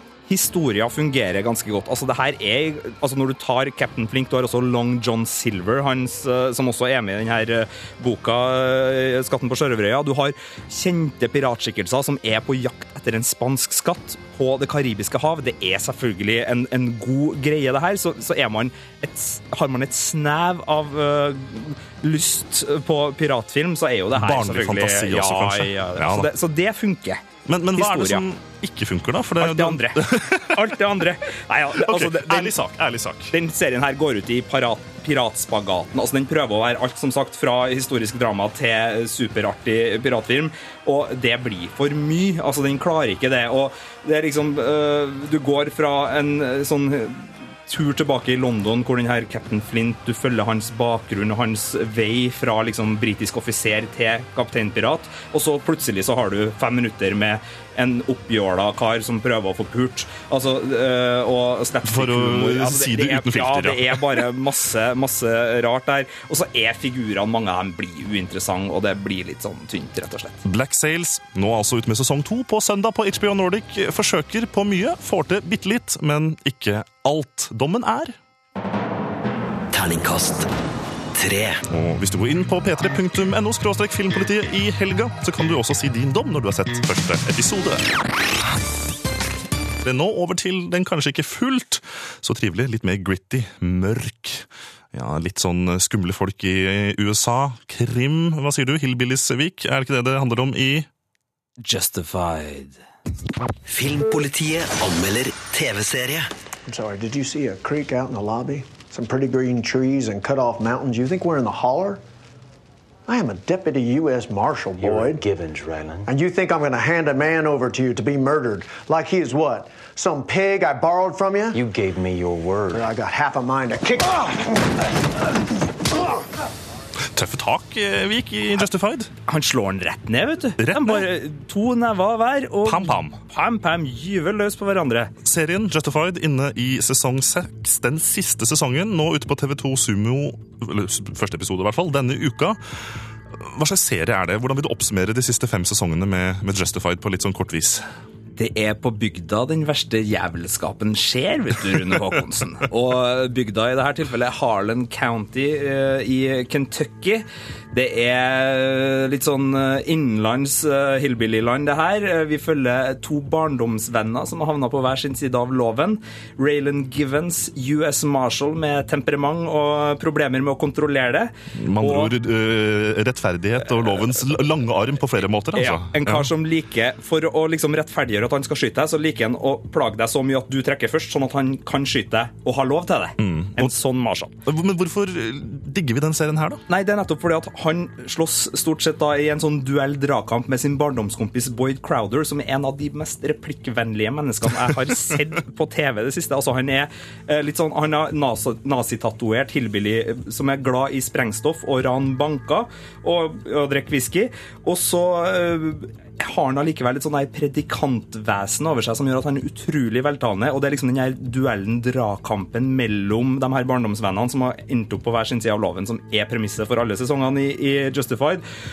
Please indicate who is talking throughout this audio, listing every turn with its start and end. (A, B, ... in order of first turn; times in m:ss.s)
0:00.3-0:27.2 A
0:24.1-0:26.3 B
0:27.5-0:30.6 B
0:27.8-0:28.2 A
0:29.4-0:32.6 A
0:31.8-0:33.3 B
0:33.3-1:10.4 A
1:01.8-1:04.2 B
1:10.4-1:18.2 B
1:19.7-1:20.5 C
1:21.1-1:21.6 C
1:21.7-1:27.9 B
1:29.8-1:40.9 B
1:41.6-1:42.8 A
1:43.7-1:46.3 C
1:46.7-1:52.0 D
1:53.1-1:55.3 D
1:54.8-1:55.9 E
1:56.0-2:01.6 D
2:01.6-2:02.6 E
2:02.7-2:04.6 D
2:07.1-2:09.1 B
2:09.3-2:15.1 A
2:10.6-2:11.1 B
2:12.6-2:13.2 B
2:15.2-2:22.6 B
2:23.4-2:27.8 B
2:28.4-2:52.1 A
2:51.6-2:56.3 B
2:53.7-2:54.4 A
2:55.5-3:04.4 A
3:03.2-3:03.7 B
3:04.5-3:06.6 B
3:06.7-3:38.4 A